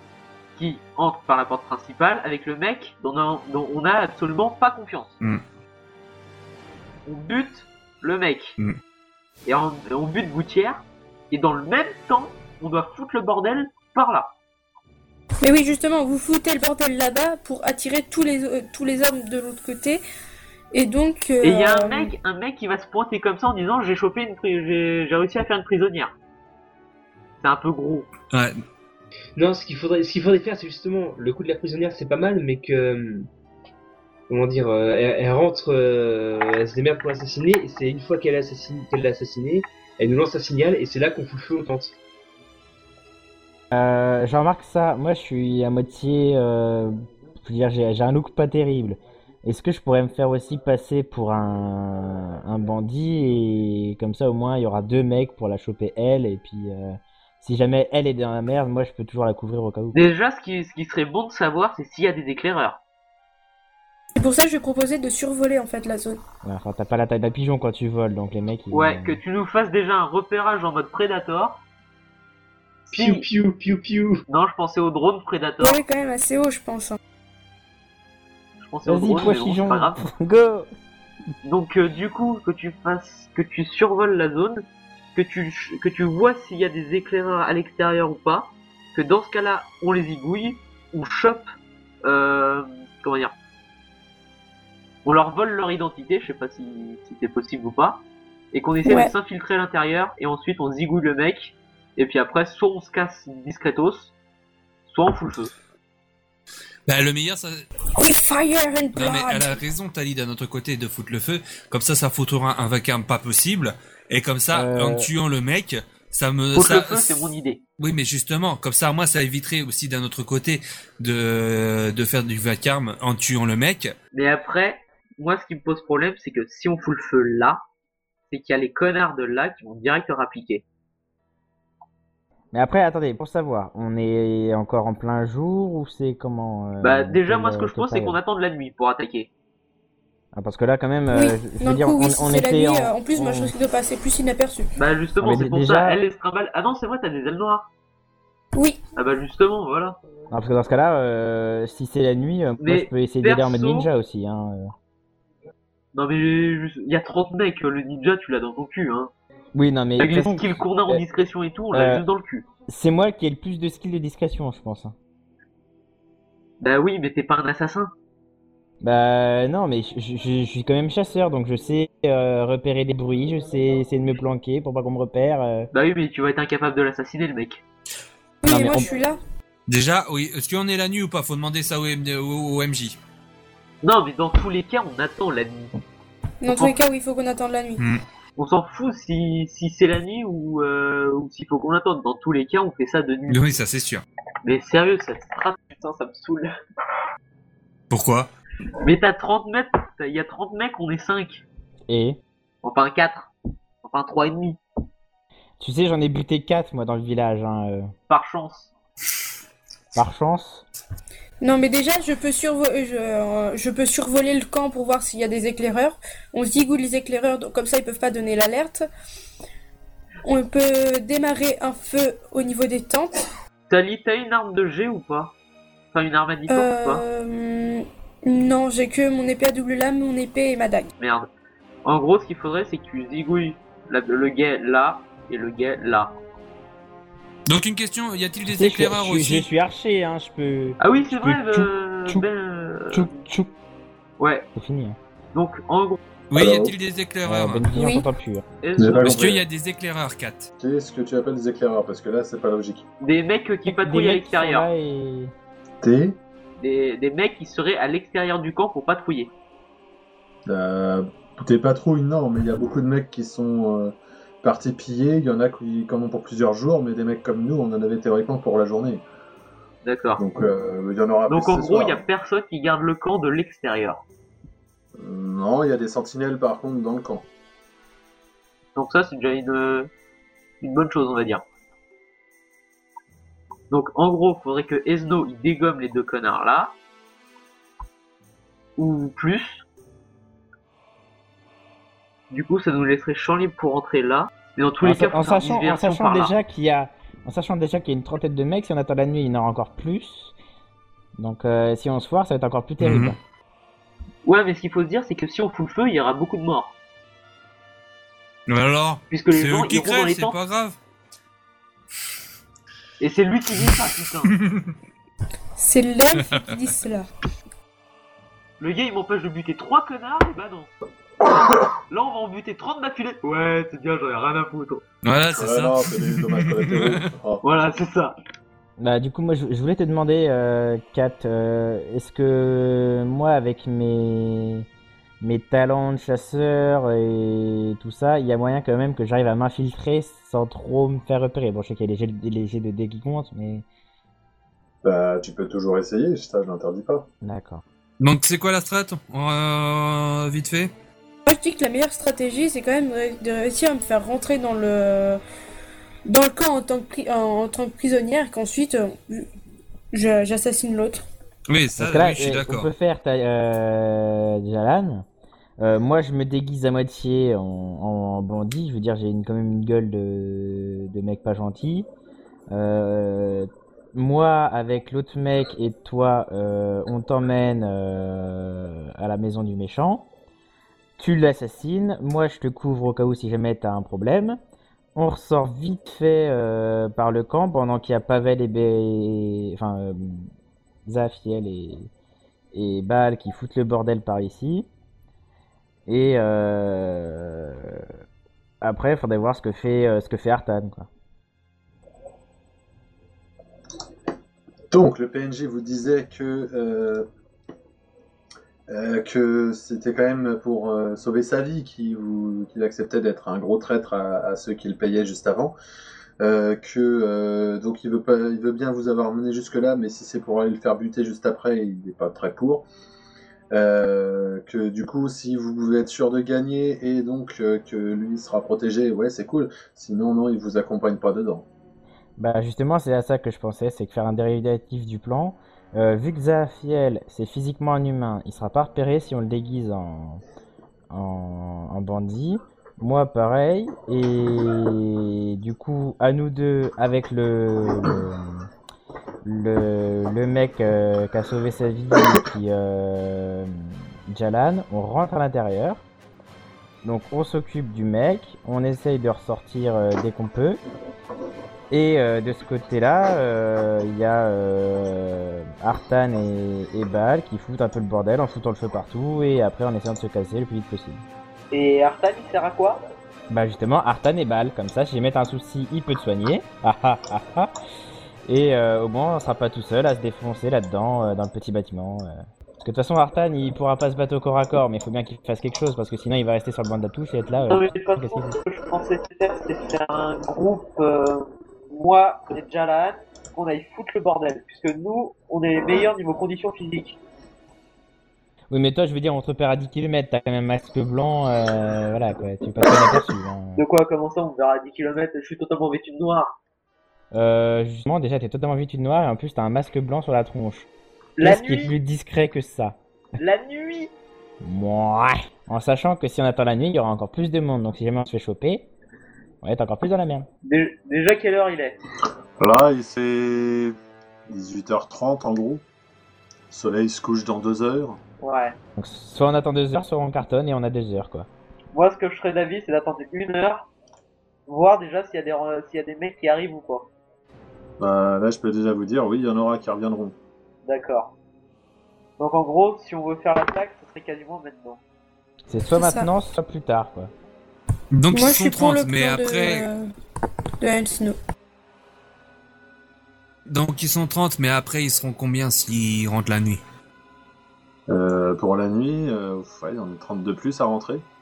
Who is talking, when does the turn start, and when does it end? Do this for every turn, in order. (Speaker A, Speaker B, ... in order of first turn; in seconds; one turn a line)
Speaker A: 0.6-5.2
Speaker A: 7.0-8.6
Speaker A: 9.4-14.3
Speaker B: 15.4-20.0
Speaker B: 20.7-22.1
Speaker A: 21.4-26.1
Speaker A: 27.4-28.1
Speaker C: 28.3-28.6
Speaker D: 29.4-33.3
Speaker D: 34.3-41.9
Speaker E: 43.7-60.0
Speaker A: 59.9-62.8
Speaker B: 64.2-66.2
Speaker E: 66.4-69.2
Speaker A: 68.7-71.6
Speaker D: 72.9-74.2
Speaker A: 72.9-73.2
Speaker A: 74.3-75.8
Speaker B: 75.6-77.0
Speaker A: 78.6-80.0
Speaker E: 78.8-80.7
Speaker A: 81.4-84.6
Speaker A: 85.1-91.4
Speaker A: 92.0-93.3
Speaker A: 95.0-98.0
Speaker A: 98.5-104.1
Speaker B: 98.8-99.1
Speaker A: 104.9-105.5
Speaker C: 106.9-107.6
Speaker B: 107.9-109.6
Speaker C: 108.9-117.2
Speaker E: 114.5-115.1
Speaker A: 116.5-117.6
Speaker C: 117.8-123.9
Speaker A: 124.1-127.6
Speaker A: 128.3-130.6
Speaker E: 132.5-138.2
Speaker A: 136.8-139.3
Speaker E: 140.3-143.5
Speaker B: 141.1-144.7
Speaker A: 144.8-147.7
Speaker E: 145.2-146.0
Speaker A: 148.9-150.0
Speaker E: 150.3-154.7
Speaker A: 152.6-153.9
Speaker A: 155.9-159.1
Speaker E: 159.5-161.0
Speaker A: 160.0-162.5
Speaker E: 161.7-162.0
Speaker E: 162.7-164.9
Speaker A: 166.6-167.9
Speaker E: 168.8-175.7
Speaker A: 175.7-177.6
Speaker B: 178.4-179.2
Speaker E: 178.4-178.9
Speaker C: 179.7-183.0
Speaker A: 183.8-185.8
Speaker B: 186.4-187.8
Speaker A: 186.5-186.8
Speaker A: 188.4-193.5
Speaker C: 193.3-194.0
Speaker A: 194.4-196.5
Speaker C: 197.9-198.3
Speaker A: 198.8-201.4
Speaker E: 201.9-202.2
Speaker A: 202.6-203.3
Speaker A: 203.8-204.6
Speaker E: 205.6-207.9
Speaker A: 208.1-208.7
Speaker E: 209.9-210.6
Speaker B: 211.4-218.8
Speaker B: 220.2-223.2
Speaker A: 223.7-225.3
Speaker A: 225.9-227.0
Speaker B: 226.5-230.9
Speaker A: 231.0-231.3
Speaker A: 231.8-236.1
Speaker C: 237.5-239.5
Speaker E: 238.4-242.2
Speaker A: 240.8-243.1
Speaker E: 242.9-243.5
Speaker A: 244.2-244.5
Speaker E: 244.6-245.0
Speaker A: 245.3-246.0
Speaker C: 246.3-247.7
Speaker F: 246.3-246.7
Speaker E: 247.2-248.4
Speaker B: 247.7-248.1
Speaker A: 248.6-249.3
Speaker F: 248.8-249.4
Speaker C: 248.9-250.5
Speaker F: 250.6-252.8
Speaker A: 253.0-254.7
Speaker E: 253.7-255.3
Speaker F: 255.8-256.2
Speaker A: 256.6-259.3
Speaker F: 260.5-269.0
Speaker A: 269.8-270.2
Speaker F: 270.2-272.1
Speaker A: 271.3-274.0
Speaker F: 275.0-277.2
Speaker A: 278.8-279.9
Speaker A: 280.6-281.4
Speaker A: 283.7-286.7
Speaker A: 288.8-289.6
Speaker A: 292.3-296.3
Speaker E: 294.8-300.3
Speaker E: 301.2-303.2
Speaker C: 302.8-303.1
Speaker A: 304.2-306.7
Speaker C: 308.5-310.8
Speaker A: 309.1-310.4
Speaker A: 313.0-314.3
Speaker C: 314.3-314.7
Speaker B: 315.6-317.1
Speaker C: 316.2-316.5
Speaker A: 318.6-320.7
Speaker A: 321.9-324.8
Speaker C: 325.0-327.1
Speaker F: 325.4-327.4
Speaker A: 327.4-328.1
Speaker E: 328.8-334.7
Speaker E: 335.2-343.6
Speaker F: 344.8-347.1
Speaker E: 347.2-347.6
Speaker C: 348.0-350.7
Speaker B: 351.2-355.2
Speaker B: 356.1-359.3
Speaker B: 359.9-361.0
Speaker C: 361.5-362.7
Speaker E: 361.8-365.0
Speaker E: 365.6-371.9
Speaker E: 372.5-380.1
Speaker E: 381.0-384.4
Speaker E: 384.9-390.3
Speaker E: 390.9-391.9
Speaker E: 392.5-394.7
Speaker E: 395.9-397.9
Speaker E: 398.6-400.9
Speaker F: 404.7-407.1
Speaker F: 408.7-415.5
Speaker F: 416.2-422.6
Speaker F: 423.5-431.4
Speaker E: 432.2-440.2
Speaker E: 440.9-448.5
Speaker E: 449.2-455.8
Speaker E: 456.8-460.6
Speaker E: 461.7-471.0
Speaker A: 471.5-472.8
Speaker E: 473.3-477.5
Speaker E: 478.2-488.4
Speaker A: 487.5-497.0
Speaker E: 498.5-503.6
Speaker A: 503.6-506.3
Speaker E: 507.1-510.7
Speaker A: 511.2-511.7
Speaker E: 511.2-512.8
Speaker A: 513.2-513.9
Speaker E: 514.4-518.7
Speaker E: 519.4-520.3
Speaker A: 520.4-521.8
Speaker F: 522.4-523.8
Speaker F: 524.3-525.6
Speaker F: 526.5-528.0
Speaker A: 528.2-528.5
Speaker E: 528.8-531.3
Speaker A: 531.7-533.7
Speaker A: 534.5-536.9
Speaker F: 537.8-540.1
Speaker A: 540.6-541.1
Speaker A: 542.2-544.8
Speaker E: 545.5-547.1
Speaker B: 545.8-546.1
Speaker C: 547.9-549.7
Speaker B: 548.1-549.9
Speaker B: 550.6-551.1
Speaker C: 553.5-556.6
Speaker F: 557.9-561.0